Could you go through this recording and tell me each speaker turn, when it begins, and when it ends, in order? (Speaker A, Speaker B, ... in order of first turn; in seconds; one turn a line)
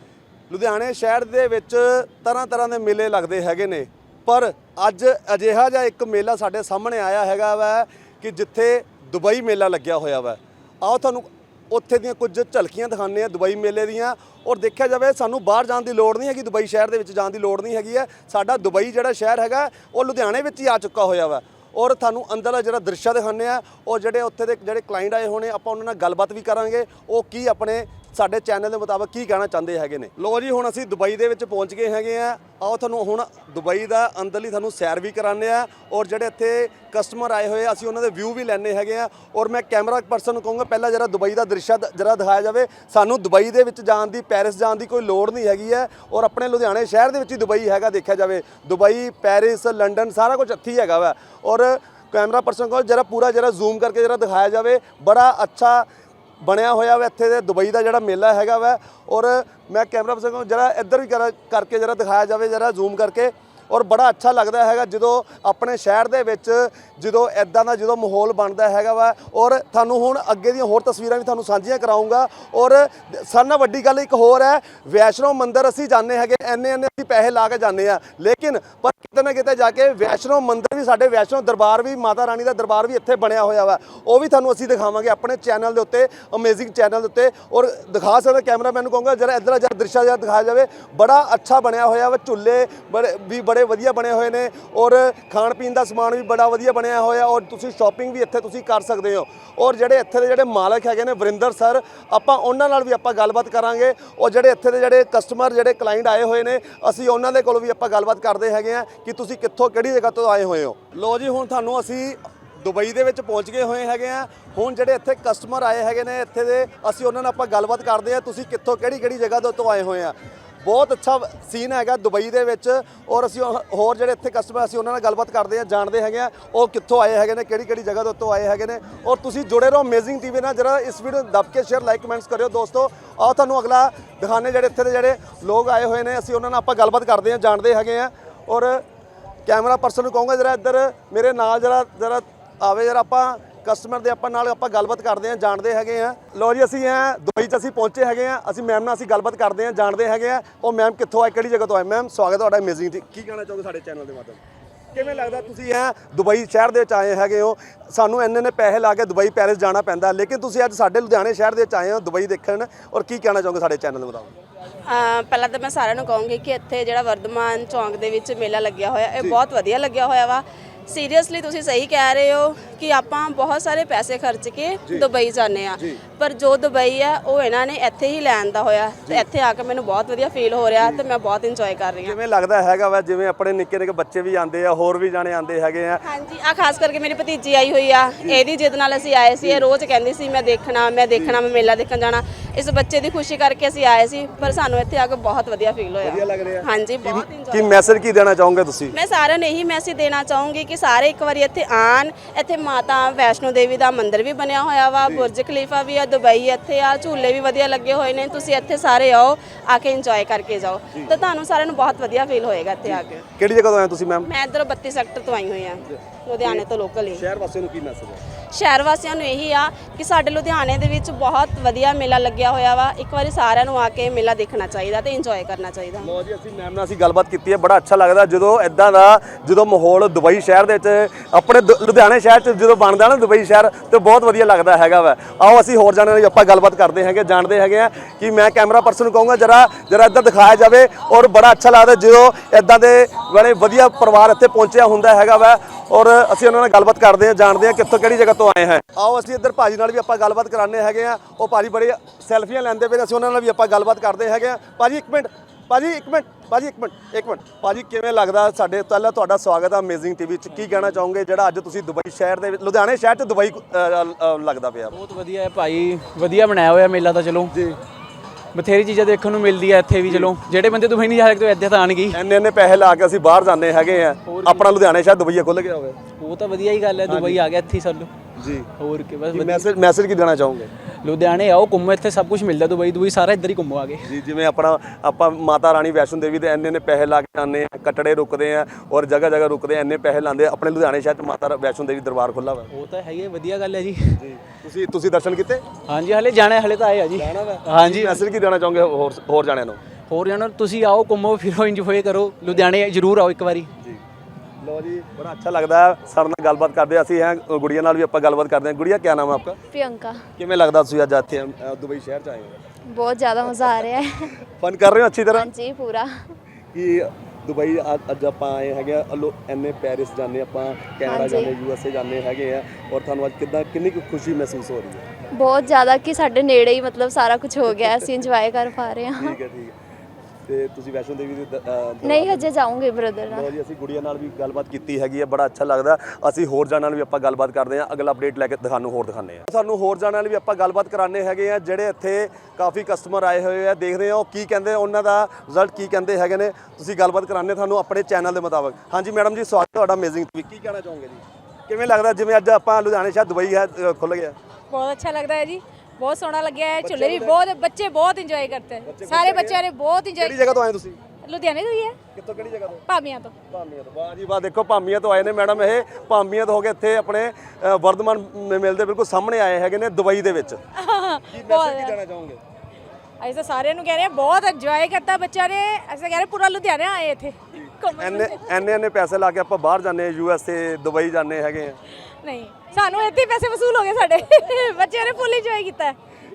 Speaker A: 0.5-55.9
Speaker A: 56.4-138.8
Speaker A: 139.5-154.4
Speaker A: 154.9-164.3
Speaker B: 155.0-155.3
Speaker B: 164.8-182.2
Speaker A: 182.0-186.1
Speaker B: 186.1-197.8
Speaker A: 191.2-191.4
Speaker A: 196.0-198.9
Speaker B: 198.9-213.3
Speaker A: 205.0-205.3
Speaker A: 210.9-211.2
Speaker A: 212.8-214.3
Speaker B: 214.2-217.2
Speaker A: 215.8-218.2
Speaker B: 218.5-226.1
Speaker A: 226.0-265.0
Speaker C: 264.9-267.5
Speaker A: 267.5-267.8
Speaker C: 268.5-272.2
Speaker A: 270.1-270.3
Speaker A: 272.1-276.0
Speaker C: 274.3-274.6
Speaker C: 276.2-278.1
Speaker A: 277.1-277.4
Speaker A: 278.4-278.7
Speaker C: 278.8-279.6
Speaker A: 279.3-280.7
Speaker C: 281.0-284.1
Speaker A: 284.0-292.7
Speaker C: 292.7-294.2
Speaker A: 294.2-295.6
Speaker C: 295.9-298.2
Speaker A: 297.1-299.8
Speaker C: 300.1-303.7
Speaker A: 304.6-309.6
Speaker D: 309.7-310.2
Speaker A: 310.4-312.6
Speaker D: 312.9-314.3
Speaker A: 313.5-314.0
Speaker A: 314.6-315.5
Speaker D: 315.4-316.3
Speaker A: 316.7-325.1
Speaker D: 321.1-321.5
Speaker D: 325.3-329.4
Speaker A: 327.7-328.3
Speaker A: 329.2-329.8
Speaker A: 330.5-332.5
Speaker D: 332.0-333.5
Speaker A: 333.3-354.4
Speaker E: 354.7-360.4
Speaker A: 356.8-357.4
Speaker A: 358.9-359.6
Speaker A: 360.2-361.0
Speaker E: 361.2-362.0
Speaker A: 362.1-362.9
Speaker E: 362.9-363.4
Speaker A: 363.5-370.6
Speaker E: 370.8-372.0
Speaker A: 371.3-372.4
Speaker E: 373.2-378.6
Speaker A: 377.6-381.8
Speaker E: 382.2-386.0